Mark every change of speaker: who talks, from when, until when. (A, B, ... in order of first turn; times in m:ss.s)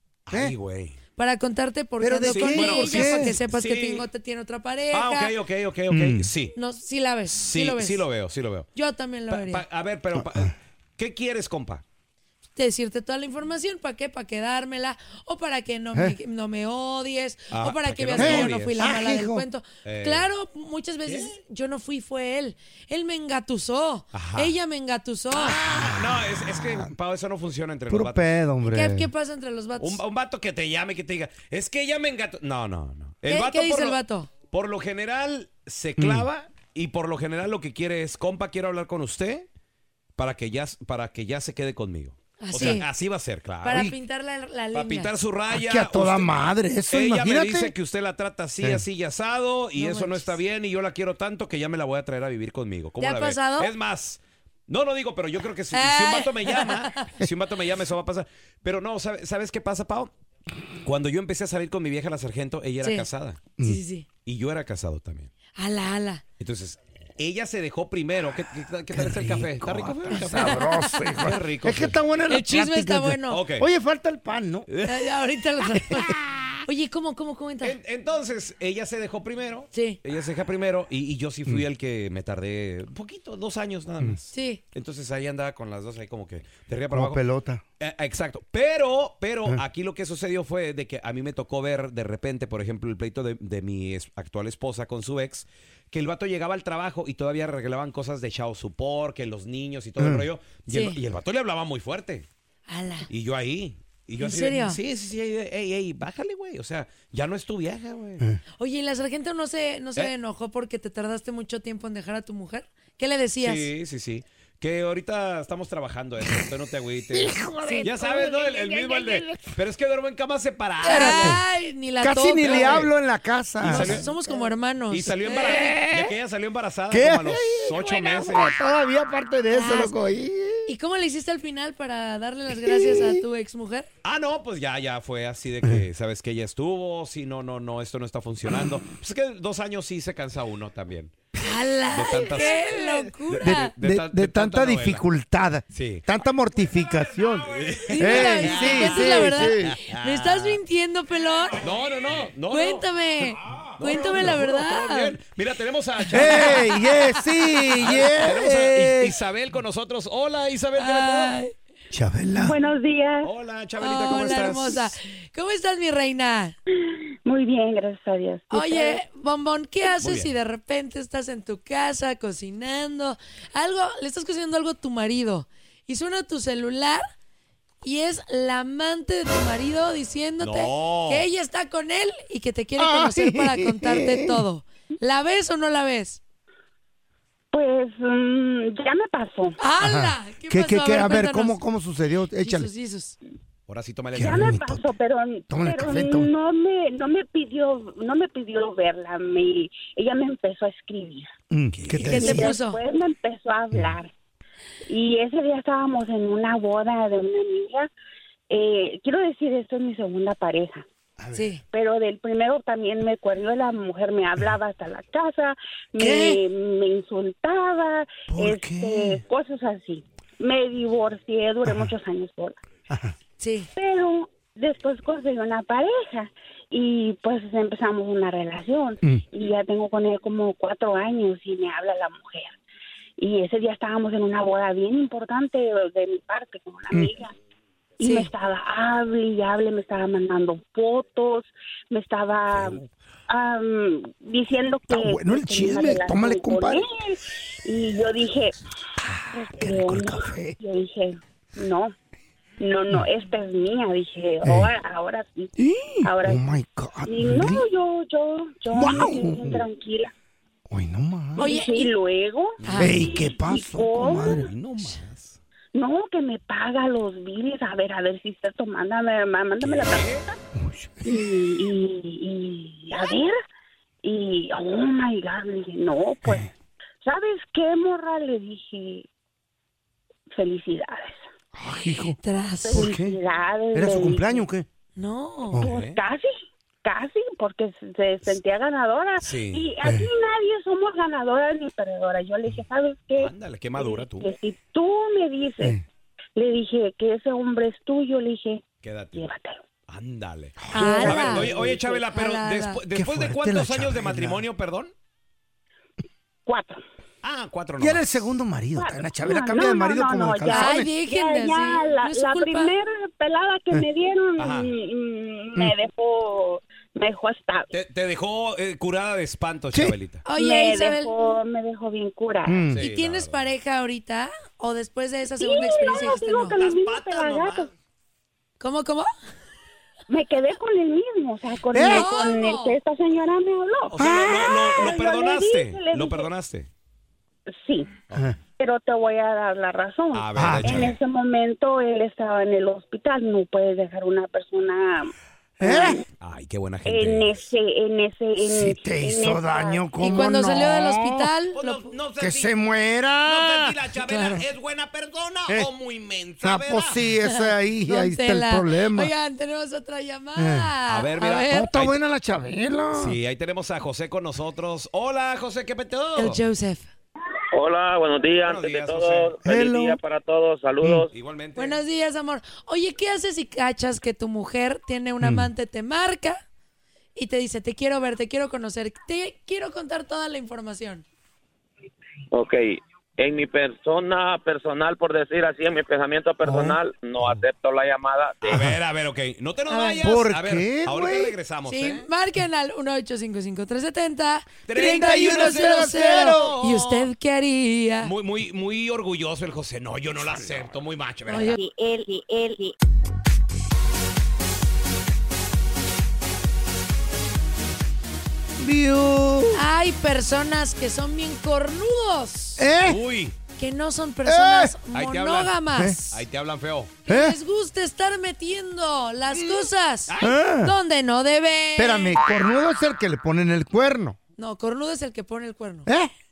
0:00.3-0:01.0 A
0:01.2-0:05.3 B
0:02.0-0:03.4 C
0:02.3-0:04.0 A
0:04.9-0:06.5 A
0:05.9-0:06.3 C
0:06.6-0:08.1 B
0:07.3-0:08.7 A
0:08.8-0:09.6 B
0:09.3-0:11.8 A
0:10.2-0:10.5 C
0:12.6-0:25.6 B
0:17.5-0:18.8 A
0:18.2-0:19.4 C
0:19.8-0:20.3 A
0:21.1-0:21.3 A
0:24.1-0:24.5 A
0:25.3-0:28.2 A
0:27.9-0:29.1 C
0:28.7-0:30.0 B
0:29.8-0:34.0 A
0:33.3-0:34.3 B
0:34.5-0:39.5 A
0:36.0-0:36.3 C
0:40.2-0:43.9 A
0:42.4-0:42.9 B
0:43.6-0:45.1 B
0:44.7-0:46.3 A
0:45.5-0:47.7 C
0:46.9-1:00.1 A
0:49.8-0:50.4 B
0:53.0-0:53.7 B
0:55.7-0:57.1 B
1:00.8-1:03.5 A
1:02.8-1:04.1 B
1:04.2-1:05.3 A
1:05.6-1:06.2 B
1:06.4-1:12.0 A
1:08.9-1:14.7 C
1:10.2-1:11.2 B
1:12.3-1:13.4 B
1:13.3-1:13.7 A
1:14.7-1:15.0 A
1:14.8-1:16.1 B
1:16.7-1:17.8 B
1:17.6-1:27.2 A
1:19.7-1:20.0 B
1:24.3-1:24.6 B
1:26.9-1:27.6 C
1:27.8-1:42.3 A
1:40.0-1:40.3 C
1:40.7-1:41.0 B
1:42.7-1:43.1 B
1:43.1-1:48.2 A
1:44.2-1:44.8 B
1:48.6-1:53.7 B
1:53.4-2:01.4 A
1:57.1-1:59.6 C
1:57.6-1:57.9 B
2:00.8-2:02.8 B
2:00.9-2:01.4 C
2:02.0-2:04.4 C
2:02.4-2:02.9 A
2:03.6-2:04.1 A
2:03.6-2:05.8 B
2:04.9-2:08.5 A
2:05.5-2:06.1 C
2:06.9-2:10.7 C
2:09.5-2:10.0 B
2:10.7-2:13.9 B
2:12.5-2:13.2 C
2:14.0-2:21.2 A
2:21.4-2:23.7 B
2:21.9-2:25.0 A
2:23.4-2:29.8 C
2:25.7-2:26.0 A
2:26.8-2:30.6 A
2:27.9-2:31.7 B
2:31.6-2:32.8 A
2:32.5-2:35.2 B
2:33.8-2:36.7 A
2:36.0-2:37.0 B
2:36.1-2:39.2 C
2:37.8-2:41.4 A
2:40.8-2:41.5 B
2:41.9-2:42.6 C
2:42.4-2:43.3 D
2:43.2-2:44.9 A
2:43.8-2:46.6 B
2:47.3-2:49.0 D
2:48.5-2:57.0 B
2:50.0-2:50.3 A
2:57.8-3:06.2 B
3:00.4-3:01.2 A
3:02.8-3:04.4 C
3:07.5-3:09.6 D
3:09.6-3:11.6 B
3:09.8-3:12.7 C
3:12.4-3:13.2 B
3:13.7-3:14.6 A
3:14.1-3:14.9 C
3:14.2-3:21.3 D
3:15.5-3:16.3 C
3:21.5-3:22.5 C
3:21.7-3:22.3 A
3:22.0-3:22.8 B
3:22.1-3:24.1 D
3:24.9-3:27.9 D
3:28.5-3:30.8 D
3:31.2-3:31.5 C
3:31.3-3:31.6 B
3:31.7-3:42.6 D
3:36.0-3:36.4 C
3:38.3-3:39.2 C
3:41.7-3:41.9 C
3:42.9-3:43.1 C
3:43.4-3:43.7 B
3:43.8-3:52.6 D
3:53.2-3:57.3 D
3:58.0-4:08.6 D
3:58.0-3:58.3 B
4:04.9-4:06.9 C
4:09.0-4:10.6 C
4:09.3-4:11.9 D
4:12.6-4:16.4 D
4:14.4-4:14.7 C
4:15.6-4:17.6 C
4:17.1-4:20.1 D
4:18.7-4:19.6 C
4:20.7-4:21.5 C
4:21.4-4:21.9 B
4:21.4-4:24.5 D
4:22.6-4:23.1 A
4:22.6-4:23.0 B
4:22.8-4:24.5 C
4:24.2-4:25.4 A
4:25.8-4:30.4 D
4:29.6-4:30.3 A
4:30.6-4:31.2 C
4:31.0-4:33.4 D
4:34.0-4:36.5 D
4:36.2-4:36.5 C
4:37.0-4:39.1 D
4:40.3-4:41.2 D
4:41.6-4:42.2 C
4:42.2-4:42.9 B
4:42.6-4:44.5 D
4:42.7-4:43.2 C
4:43.7-4:44.7 C
4:45.0-4:45.6 B
4:45.6-4:46.0 A
4:45.6-4:46.3 D
4:46.8-4:55.8 D
4:49.2-4:49.7 A
4:49.8-4:50.1 C
4:53.2-4:54.3 A
4:56.4-4:59.6 D
4:58.8-4:59.2 A
4:59.9-5:04.9 A
5:00.6-5:01.2 C
5:00.7-5:01.5 B
5:00.8-5:02.0 D
5:02.1-5:02.8 B
5:02.9-5:04.4 C
5:06.5-5:06.8 D
5:07.2-5:08.2 A
5:07.8-5:10.9 C
5:08.8-5:17.7 D
5:10.5-5:12.7 B
5:14.4-5:14.7 A
5:17.7-5:20.2 A
5:20.2-5:21.1 B
5:20.4-5:22.7 D
5:22.5-5:22.8 C
5:22.7-5:23.5 A
5:22.8-5:26.6 B
5:25.4-5:27.7 D
5:26.6-5:27.7 A
5:28.6-5:29.1 B
5:30.1-5:36.3 D
5:31.7-5:32.1 C
5:31.8-5:32.8 B
5:33.9-5:36.7 A
5:34.0-5:34.5 C
5:37.5-5:37.9 D
5:38.6-5:46.0 D
5:40.1-5:41.0 A
5:40.4-5:40.9 C
5:45.6-5:46.0 C
5:46.2-5:47.4 A
5:46.9-5:49.8 D
5:48.4-5:51.3 C
5:50.0-5:51.9 B
5:51.5-5:52.5 A
5:52.2-5:53.8 C
5:53.3-5:57.0 A
5:54.0-5:54.4 B
5:56.4-5:59.1 C
5:57.3-6:01.7 B
6:00.4-6:00.7 C
6:00.9-6:02.0 A
6:01.5-6:03.2 C
6:02.9-6:06.4 A
6:06.2-6:06.9 B
6:07.5-6:11.1 E
6:08.4-6:09.4 A
6:09.4-6:10.0 C
6:11.1-6:11.8 A
6:11.6-6:16.4 B
6:15.2-6:15.5 C
6:17.2-6:21.0 B
6:22.3-6:28.4 E
6:26.4-6:26.8 C
6:28.4-6:32.1 A
6:28.4-6:28.8 C
6:29.7-6:30.1 B
6:30.0-6:31.4 C
6:31.7-6:38.1 B
6:34.7-6:37.1 A
6:34.7-6:36.6 C
6:38.0-6:41.6 A
6:41.3-6:41.6 B
6:48.6-6:49.6 C
6:49.5-6:52.7 B
6:52.6-6:53.0 C
6:52.8-6:53.4 A
6:53.6-6:56.2 B
6:54.3-6:54.8 C
6:54.9-6:55.6 A
6:56.1-6:56.9 A
6:57.1-7:02.2 B
6:57.1-6:57.4 C
7:00.2-7:00.7 C
7:01.8-7:04.2 C
7:04.4-7:05.9 B
7:05.9-7:06.1 C